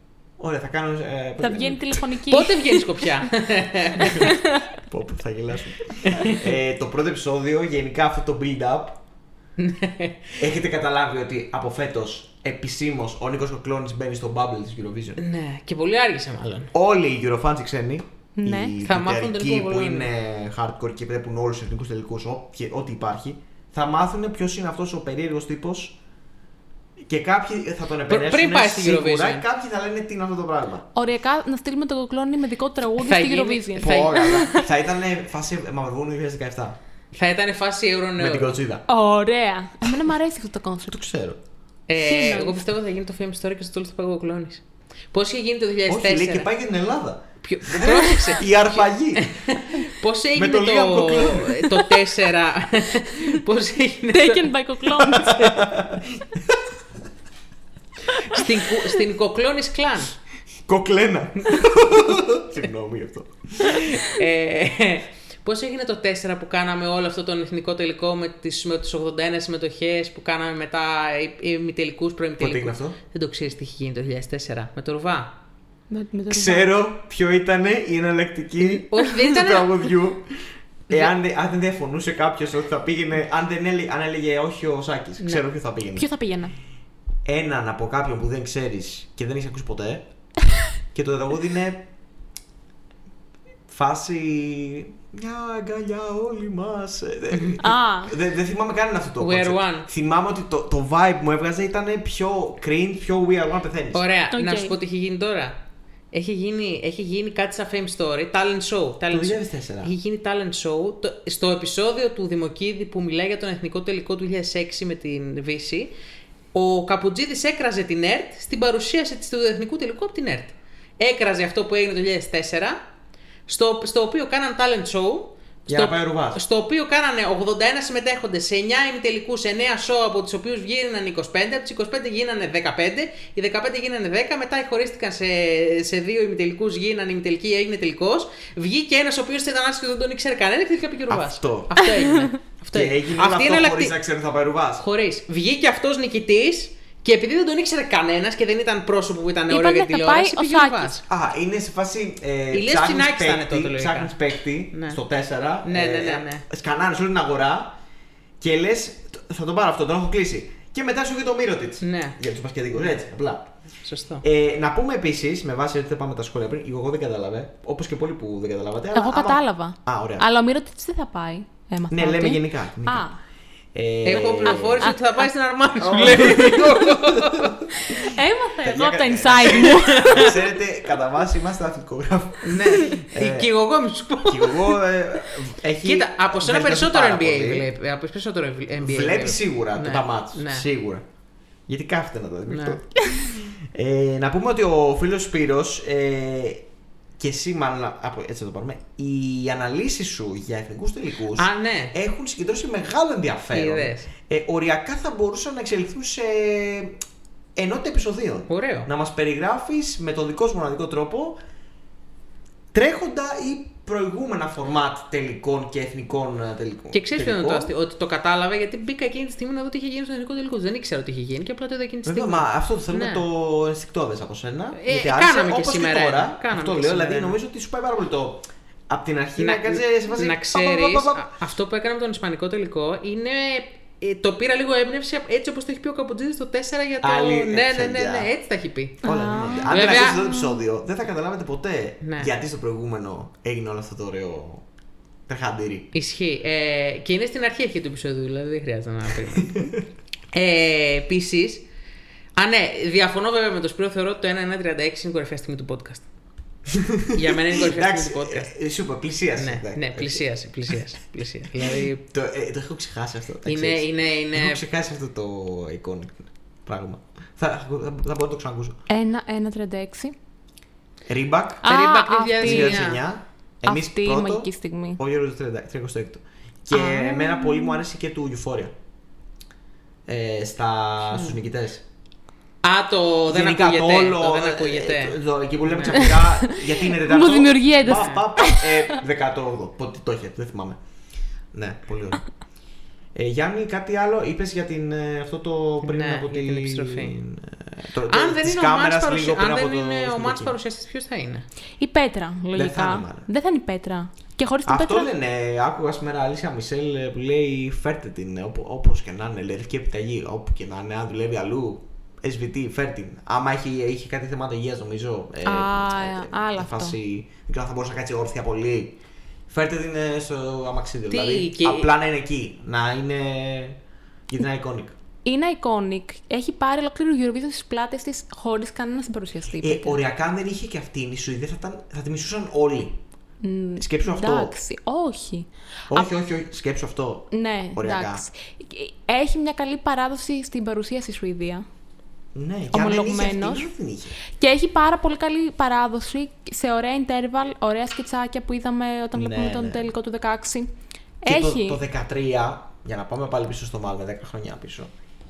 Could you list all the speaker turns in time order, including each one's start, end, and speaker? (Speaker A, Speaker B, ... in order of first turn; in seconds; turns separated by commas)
Speaker A: 0.4-2.2, Speaker B: 1.4-3.1, Speaker C: 2.3-4.2, Speaker A: 4.0-9.0, Speaker B: 4.0-4.7, Speaker C: 6.1-6.5, Speaker C: 9.6-10.4, Speaker A: 10.4-15.2, Speaker C: 15.2-16.7, Speaker A: 16.7-26.0, Speaker B: 18.4-18.8, Speaker C: 18.8-20.1, Speaker A: 27.0-30.9, Speaker C: 28.1-29.4, Speaker B: 30.9-34.6, Speaker C: 33.0-34.4, Speaker A: 33.8-36.8, Speaker C: 37.1-38.6, Speaker A: 38.2-38.9, Speaker B: 38.9-41.0, Speaker A: 40.9-41.4, Speaker C: 41.9-46.5, Speaker B: 42.0-42.7, Speaker A: 45.9-49.4, Speaker C: 47.4-55.5, Speaker A: 50.4-52.0, Speaker B: 54.1-55.6, Speaker A: 55.1-56.6, Speaker B: 58.2-58.4, Speaker C: 58.3-60.1, Speaker A: 60.7-64.0, Speaker C: 63.7-75.3, Speaker A: 72.4-73.0, Speaker B: 75.9-76.7, Speaker A: 76.3-86.1, Speaker C: 78.7-79.9, Speaker B: 86.0-86.5, Speaker A: 87.2-90.1, Speaker A: 90.8-91.9, Speaker A: 93.7-104.1, Speaker B: 97.6-98.1, Speaker C: 99.2-99.9, Speaker C: 103.9-105.6, Speaker B: 104.3-104.8, Speaker C: 106.1-116.0, Speaker A: 109.1-109.9, Speaker C: 116.5-122.8, Speaker C: 123.5-143.9, Speaker A: 125.7-126.4, Speaker A: 141.1-141.8, Speaker A: 142.7-144.9, Speaker C: 144.8-151.0, Speaker B: 149.5-150.9, Speaker A: 151.0-157.8, Speaker C: 152.5-154.2, Speaker C: 154.7-155.0, Speaker C: 155.6-156.4, Speaker A: 158.4-163.5, Speaker C: 161.8-162.2, Speaker C: 163.8-164.2, Speaker A: 164.2-170.3, Speaker B: 168.9-173.2, Speaker A: 171.9-173.1, Speaker A: 173.7-175.0, Speaker C: 174.1-178.0, Speaker B: 174.1-175.0, Speaker A: 175.8-177.6, Speaker B: 177.9-180.4, Speaker A: 178.6-183.5, Speaker C: 179.4-180.4, Speaker C: 182.4-184.8, Speaker A: 184.2-187.7, Speaker C: 185.8-190.7, Speaker A: 188.8-191.0, Speaker A: 191.7-196.7, Speaker C: 192.5-192.8, Speaker A: 197.2-207.0, Speaker C: 201.3-201.9, Speaker C: 203.5-204.1, Speaker A: 207.6-211.4, Speaker C: 208.5-208.9, Speaker A: 212.7-217.7, Speaker C: 216.9-223.2, Speaker A: 222.1-231.3, Speaker C: 224.8-227.4, Speaker C: 229.4-239.0, Speaker A: 237.0-238.3, Speaker A: 239.0-244.7, Speaker B: 239.0-239.7, Speaker C: 239.7-240.2, Speaker C: 242.0-242.3, Speaker A: 245.3-245.9, Speaker C: 245.9-249.8, Speaker C: 250.3-251.7, Speaker C: 252.4-256.1, Speaker A: 256.7-260.2, Speaker C: 257.1-258.5, Speaker C: 259.4-262.0, Speaker A: 261.6-268.8, Speaker C: 263.4-264.6, Speaker B: 268.9-270.1, Speaker A: 271.1-271.7, Speaker B: 271.6-272.9, Speaker C: 271.7-273.0, Speaker A: 272.4-278.7, Speaker B: 273.6-275.0, Speaker B: 276.7-277.8, Speaker A: 280.1-281.8, Speaker C: 282.6-286.2, Speaker A: 283.3-290.8, Speaker B: 286.0-288.9, Speaker C: 287.9-288.2, Speaker A: 291.5-292.2, Speaker A: 293.1-300.6, Speaker C: 295.8-297.2, Speaker C: 298.1-301.5, Speaker B: 301.8-305.1, Speaker A: 302.5-303.3, Speaker A: 304.7-319.0, Speaker B: 315.4-317.0, Speaker A: 319.5-325.0, Speaker C: 321.1-321.9, Speaker B: 325.2-330.0, Speaker A: 329.6-333.0, Speaker B: 333.4-336.1, Speaker A: 333.8-334.5, Speaker A: 335.9-338.2, Speaker B: 337.3-341.7, Speaker A: 342.3-344.1, Speaker B: 342.7-343.7, Speaker B: 344.3-351.8, Speaker A: 349.1-349.9, Speaker A: 351.3-354.9